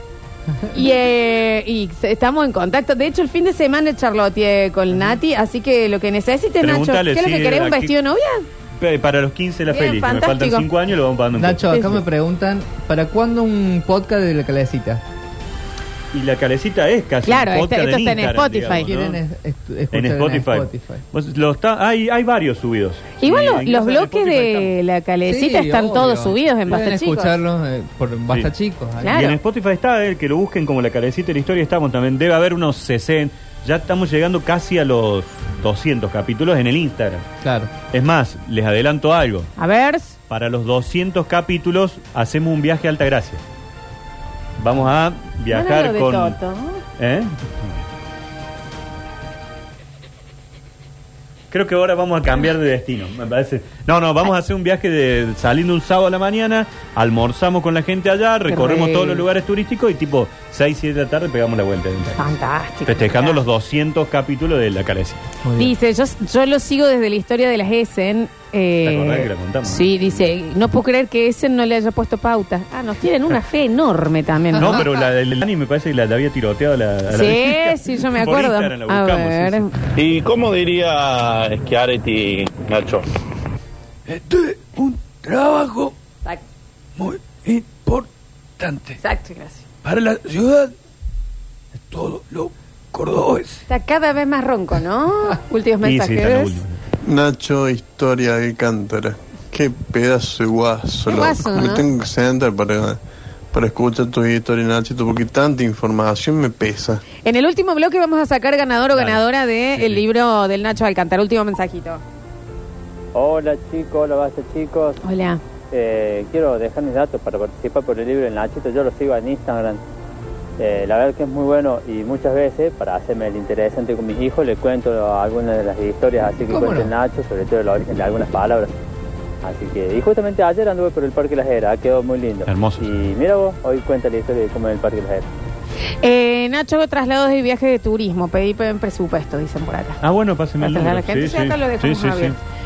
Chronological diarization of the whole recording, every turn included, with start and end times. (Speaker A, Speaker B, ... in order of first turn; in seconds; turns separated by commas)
Speaker A: 0.7-8.5, Speaker B: 6.6-7.9, Speaker B: 8.8-12.0, Speaker A: 9.7-10.7, Speaker C: 11.3-15.0, Speaker B: 16.1-19.2, Speaker A: 17.3-18.9, Speaker C: 18.6-21.0, Speaker B: 19.9-24.8, Speaker A: 23.2-27.4, Speaker C: 25.2-29.2, Speaker A: 29.0-29.4, Speaker B: 29.0-37.3, Speaker C: 37.4-37.7, Speaker B: 37.9-39.5, Speaker A: 39.6-40.1, Speaker B: 40.3-43.4, Speaker B: 44.6-46.4, Speaker A: 45.5-46.8, Speaker B: 47.0-47.8, Speaker B: 51.5-62.3, Speaker A: 58.5-59.2, Speaker A: 62.2-63.4, Speaker B: 62.9-65.3, Speaker C: 65.4-65.7, Speaker A: 65.6-74.9, Speaker B: 68.8-70.2, Speaker B: 74.6-79.7, Speaker A: 77.1-79.7, Speaker D: 80.0-82.5, Speaker E: 82.6-83.0, Speaker E: 84.1-85.9, Speaker E: 87.0-88.1, Speaker E: 88.6-89.0, Speaker A: 89.0-89.7, Speaker E: 89.8-90.7, Speaker E: 91.9-93.7, Speaker A: 93.7-96.6, Speaker B: 95.8-96.8, Speaker F: 97.0-103.0, Speaker A: 101.1-101.8, Speaker F: 103.5-107.0, Speaker A: 107.2-112.0, Speaker B: 108.9-109.2, Speaker B: 109.7-110.0, Speaker G: 113.1-115.0, Speaker A: 115.0-115.4, Speaker G: 115.7-119.8, Speaker G: 120.6-128.8, Speaker C: 126.5-126.9, Speaker G: 129.4-135.3, Speaker B: 132.5-132.9, Speaker A: 136.0-140.0, Speaker B: 140.0-142.4, Speaker A: 140.6-142.4